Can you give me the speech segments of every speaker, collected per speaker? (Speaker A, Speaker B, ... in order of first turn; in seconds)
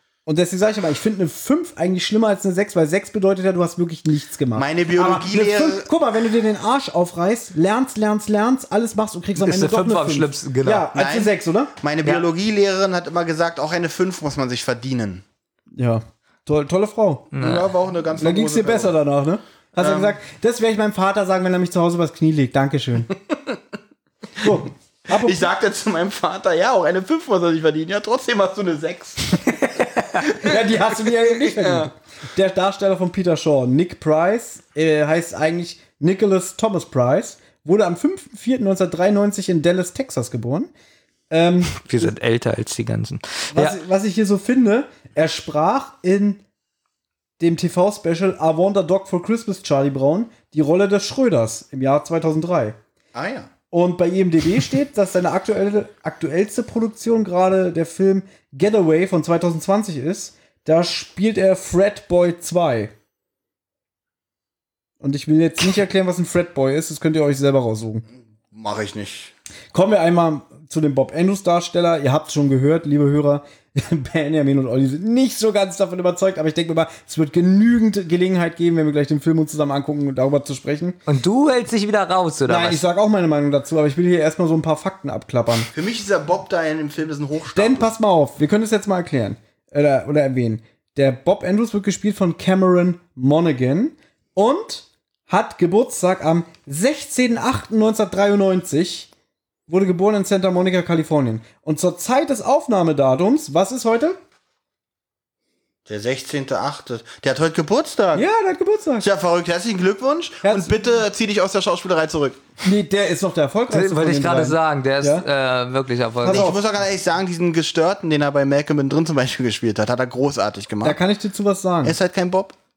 Speaker A: 0.3-11.7, 15.8-17.3, 18.2-23.1, 24.4-25.5, 30.4-40.7, 41.3-42.1, 43.5-46.4, 47.4-52.8, 53.7-62.9, 65.0-68.0, 69.7-81.0, 82.5-85.7, 87.5-99.1, 99.7-104.2, 108.1-109.1, 110.4-110.8, 112.6-115.2, 116.2-116.6, 120.8-122.0
Speaker B: 4.5-5.9, 10.9-15.2, 17.4-18.9, 19.8-20.1, 25.1-29.6, 30.2-30.6, 31.4-31.9, 53.1-53.5, 68.3-69.3, 85.7-87.9, 105.9-108.2, 109.0-112.4, 116.3-121.0, 121.8-122.5
Speaker C: 9.4-10.9, 17.3-17.7, 41.8-43.8, 81.1-82.8, 113.7-116.5